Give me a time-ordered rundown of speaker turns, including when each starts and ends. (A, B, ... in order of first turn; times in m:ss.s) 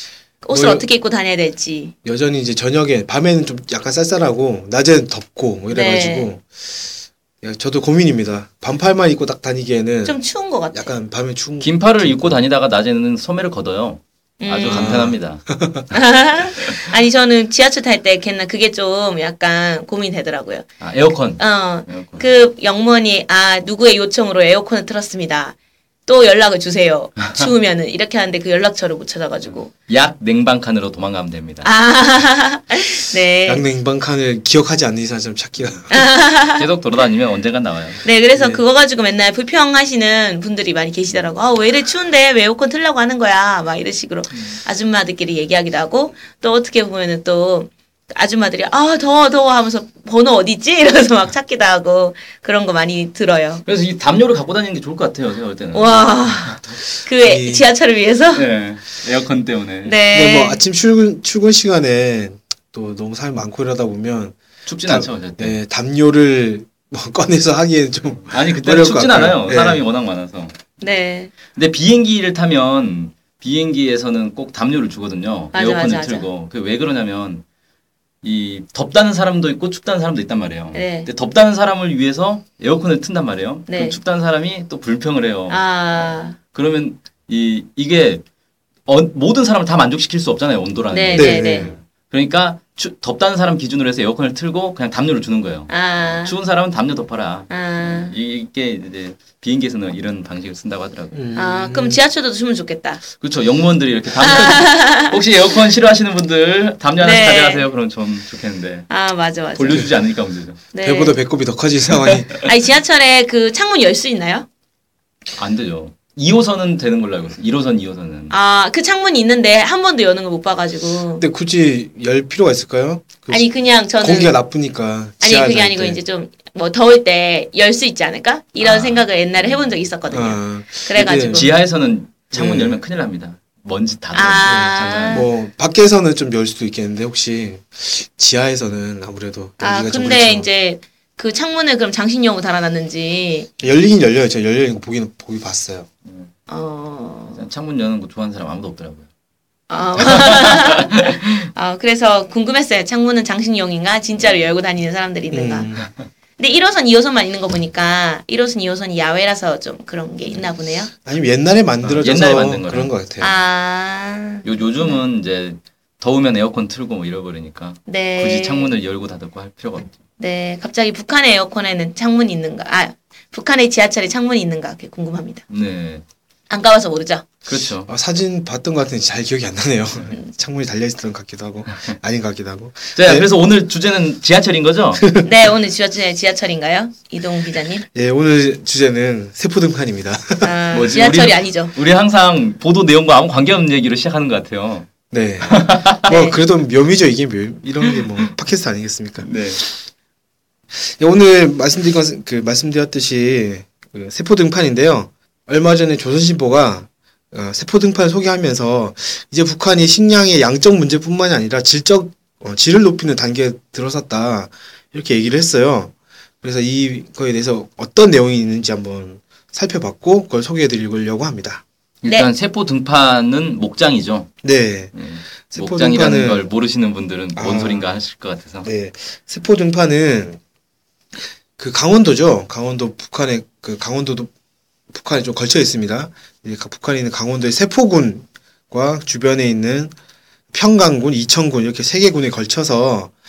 0:00.4-0:01.9 A
0:00.5-0:00.9 B
0:02.0-0:06.7 B
0:05.7-0:06.3 A
0:07.4-0:10.2 B
0:10.0-0:10.9 A
0:10.7-0:12.4 B
0:11.6-0:15.5 C
0:14.4-0:15.1 A
0:14.6-0:15.8 B
0:15.9-0:20.7 A
0:20.8-0:22.3 C
0:21.4-0:25.6 A
0:26.1-0:29.7 A
0:29.5-0:31.7 C
0:31.6-0:33.6 A
0:33.5-0:36.0 B
0:35.9-0:36.7 A
0:36.5-0:38.0 C
0:38.0-0:53.6 A
0:38.3-0:38.6 B
0:53.6-0:56.8 C
0:55.7-0:58.5 A
0:57.2-0:57.7 B
0:58.3-1:00.0 C
0:59.8-1:00.6 A
1:00.1-1:09.8 B
1:04.7-1:05.6 C
1:08.2-1:10.6 C
1:10.8-1:11.3 A
1:11.5-1:17.4 C
1:15.5-1:16.3 A
1:18.2-1:28.2 C
1:20.7-1:21.1 A
1:23.7-1:24.0 A
1:25.5-1:26.4 A
1:28.9-1:41.2 C
1:30.9-1:31.7 A
1:31.1-1:31.8 B
1:35.7-1:36.4 A
1:37.5-1:38.2 A
1:41.1-1:42.0 B
1:41.4-1:43.0 A
1:43.2-1:48.9 C
1:44.2-1:45.2 A
1:47.0-1:47.7 A
1:48.9-1:49.9 A
1:49.5-1:50.7 C
1:50.7-1:51.2 A
1:50.8-1:52.3 B
1:52.0-1:52.4 C
1:52.4-1:54.5 A
1:55.4-1:58.4 C
1:58.3-2:01.2 A
2:01.2-2:06.0 B
2:03.3-2:04.4 A
2:05.2-2:11.5 A
2:08.6-2:09.7 C
2:10.1-2:11.5 B
2:10.9-2:15.3 C
2:12.3-2:12.8 B
2:14.1-2:15.3 A
2:14.4-2:20.5 B
2:19.6-2:23.5 A
2:23.6-2:25.9 B
2:26.1-2:26.3 C
2:26.5-2:27.4 A
2:27.3-2:29.1 C
2:29.7-2:35.7 A
2:30.0-2:31.2 C
2:34.2-2:34.5 C
2:35.3-2:35.9 B
2:36.4-2:40.9 A
2:40.9-2:43.3 B
2:41.8-2:42.9 C
2:43.2-2:45.0 A
2:44.4-2:50.0 C
2:47.9-2:48.7 A
2:50.2-2:55.4 A
2:55.5-2:56.0 C
2:56.5-2:57.3 A
2:57.5-2:57.9 C
2:57.9-3:03.3 B
3:02.9-3:05.1 C
3:05.0-3:05.3 B
3:05.2-3:07.8 A
3:07.9-3:10.6 B
3:10.4-3:11.7 A
3:10.7-3:14.9 C
3:15.1-3:19.4 B
3:15.4-3:16.0 C
3:16.0-3:16.4 A
3:19.2-3:19.6 C
3:20.7-3:41.6 B
3:42.0-3:44.3 C
3:44.4-3:44.9 B
3:44.9-3:48.7 C
3:45.4-3:46.5 B
3:47.4-3:47.9 B
3:48.6-3:50.4 B
3:51.6-3:54.3 B
3:54.9-3:59.9 B
4:00.5-4:03.1 B